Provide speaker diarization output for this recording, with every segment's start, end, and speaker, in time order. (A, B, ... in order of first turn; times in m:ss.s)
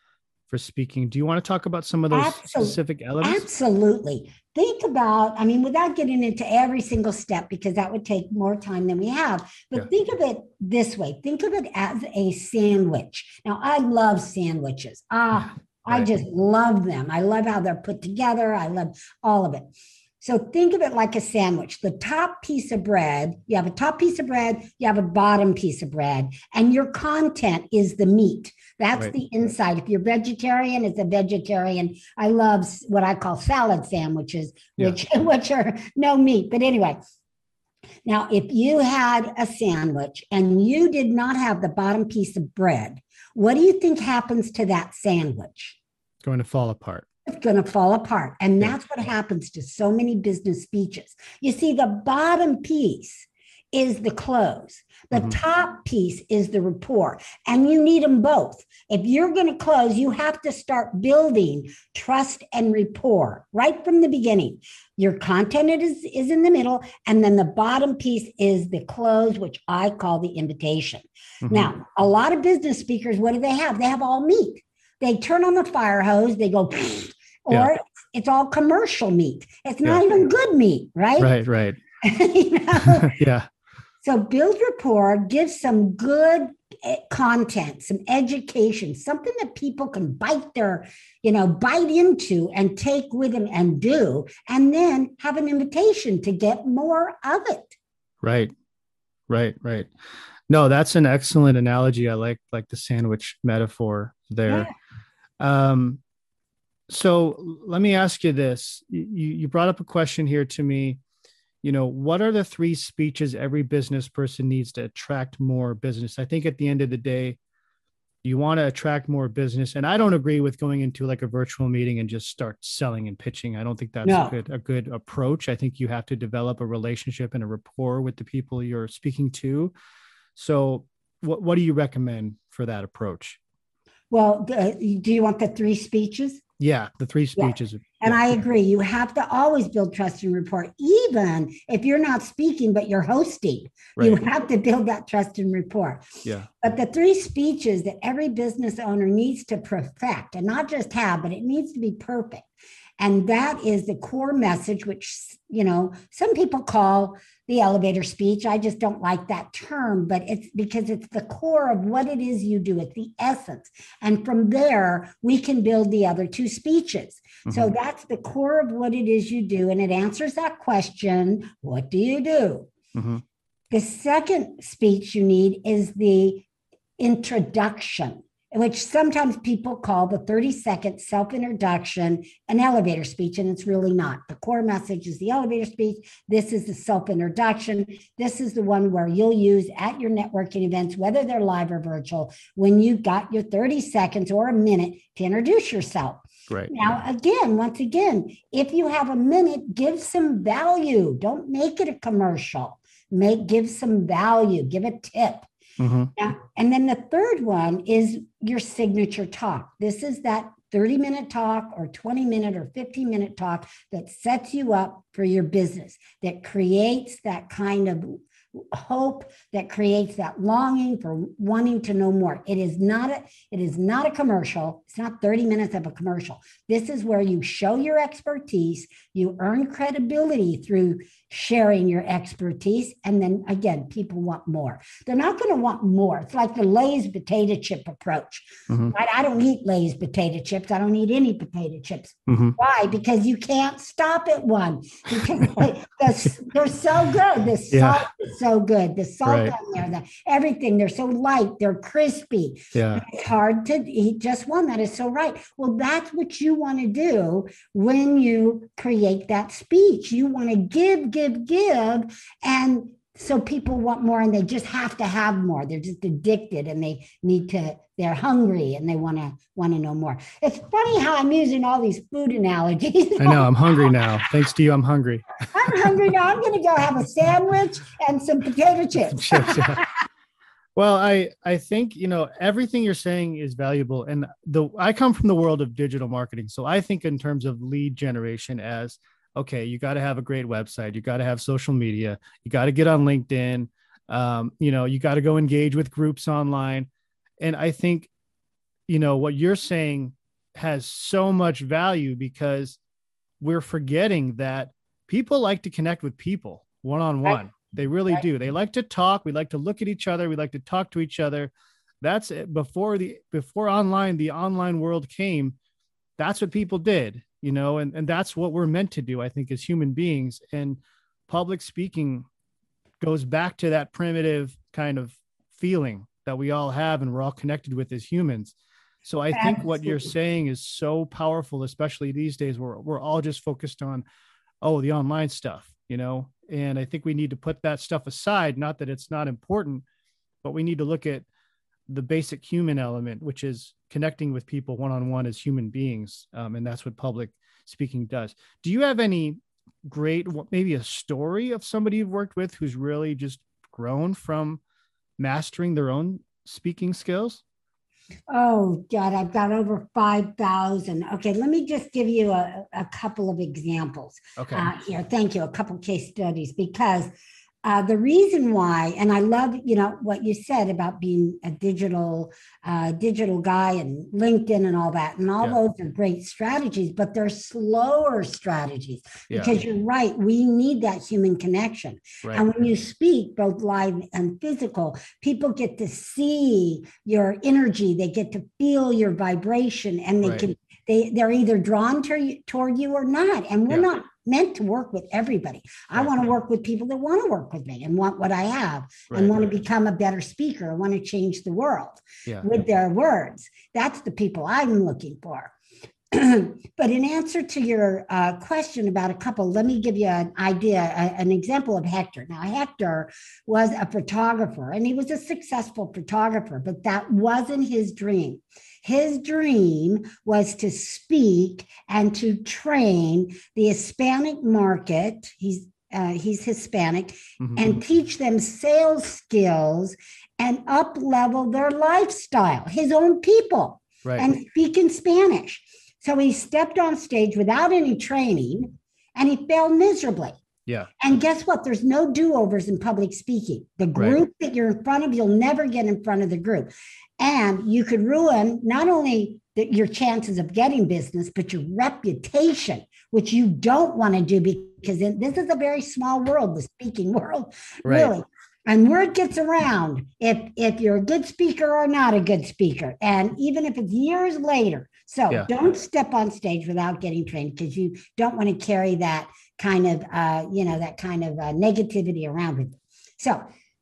0:00.5-0:03.5 A
0:02.1-0:19.7 B
0:20.2-0:37.0 B
0:38.0-0:45.8 B
0:46.2-0:47.0 A
0:47.2-1:21.3 B
1:11.4-1:11.7 A
1:21.2-1:21.8 A
1:22.0-1:23.2 B
1:23.0-1:23.5 A
1:24.0-1:37.8 B
1:38.2-1:38.5 A
1:39.3-1:39.9 A
1:40.5-1:44.7 A
1:45.4-1:46.0 A
1:46.9-1:51.0 A
1:51.6-1:57.4 A
1:58.2-2:09.7 A
2:04.0-2:04.4 B
2:10.4-2:13.4 A
2:14.1-2:16.4 B
2:16.6-2:18.4 A
2:17.4-2:26.0 B
2:24.0-2:24.2 A
2:26.6-2:32.5 B
2:33.0-2:52.7 B
2:47.5-2:47.7 A
2:52.9-2:53.2 A
2:53.7-2:56.5 B
2:57.0-3:25.5 B
3:25.8-3:26.1 A
3:26.2-4:33.9 B
3:58.7-3:58.9 A
4:02.3-4:02.6 A
4:07.7-4:08.0 A
4:09.2-4:09.5 A
4:12.7-4:13.0 A
4:33.2-4:35.8 A
4:35.5-4:39.8 B
4:39.1-4:39.8 A
4:40.8-4:56.9 A
4:57.4-4:58.1 A
4:58.9-5:02.8 A
5:03.4-5:15.6 A
5:16.2-5:22.3 A
5:23.0-5:34.0 A
5:29.3-5:30.1 B
5:34.6-5:39.8 A
5:40.4-5:41.3 A
5:41.9-5:54.6 A
5:55.2-5:57.4 A
5:58.3-6:07.1 B
6:04.4-6:04.7 A
6:07.6-6:45.5 B
6:19.3-6:19.6 A
6:36.0-6:36.3 A
6:39.1-6:39.5 A
6:46.1-7:20.3 B
7:07.4-7:07.8 A
7:21.0-7:53.4 B
7:37.8-7:38.2 A